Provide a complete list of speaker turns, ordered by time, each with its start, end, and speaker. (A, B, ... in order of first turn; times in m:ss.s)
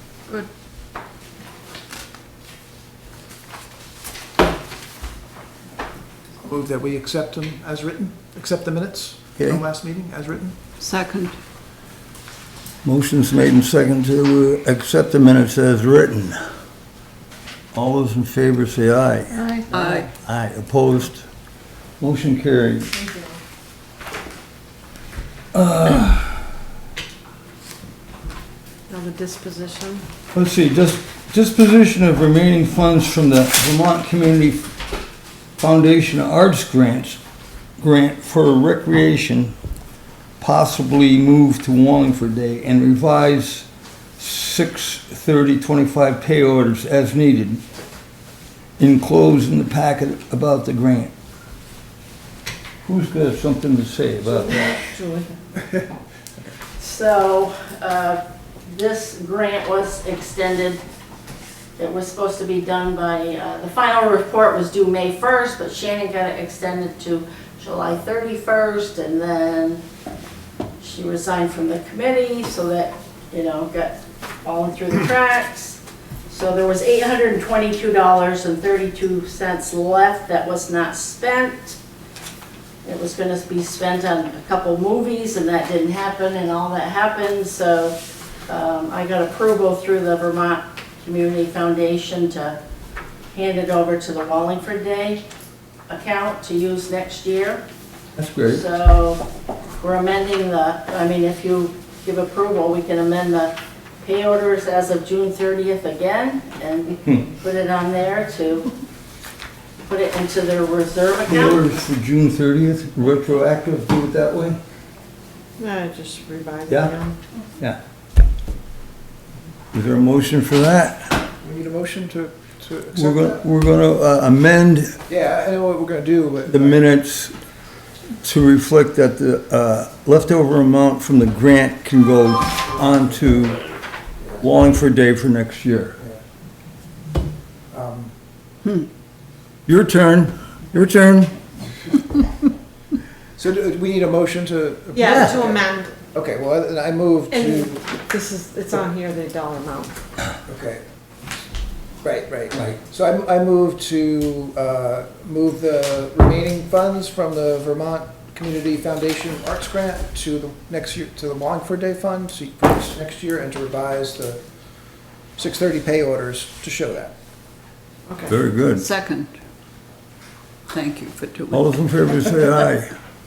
0:06.4-0:10.6 A
0:10.8-0:11.4 B
0:12.8-0:16.4 C
0:17.7-0:21.3 C
0:19.7-0:20.1 B
0:22.0-0:22.9 C
0:23.0-0:23.4 D
0:25.5-0:26.4 C
0:28.9-0:30.0 D
0:30.3-0:34.7 C
0:35.6-0:37.2 C
0:37.8-0:39.6 C
0:40.4-0:43.7 C
0:44.2-0:47.6 C
0:48.8-0:51.1 C
0:52.8-0:54.8 C
0:54.2-0:55.3 D
0:56.8-1:00.8 E
1:01.8-1:09.8 E
1:10.8-1:21.8 E
1:22.8-1:32.6 E
1:33.3-1:35.2 E
1:35.9-1:37.6 E
1:38.2-1:38.6 C
1:38.5-1:39.2 E
1:39.8-1:48.7 E
1:49.9-1:51.7 E
1:51.3-1:54.6 C
1:55.6-1:57.2 D
1:56.7-1:56.9 C
1:59.7-2:01.2 C
2:01.4-2:03.4 A
2:03.0-2:05.0 C
2:05.1-2:06.8 A
2:06.5-2:07.4 C
2:08.2-2:13.6 C
2:14.4-2:16.0 C
2:17.7-2:18.1 A
2:19.7-2:21.3 C
2:23.4-2:27.8 A
2:24.9-2:25.9 D
2:25.0-2:25.4 C
2:27.3-2:29.9 D
2:30.5-2:30.8 A
2:32.0-2:44.4 A
2:32.5-2:32.8 C
2:45.4-2:47.2 A
2:48.3-2:48.8 C
2:48.8-2:49.3 B
2:50.7-2:51.7 B
2:51.5-2:52.9 C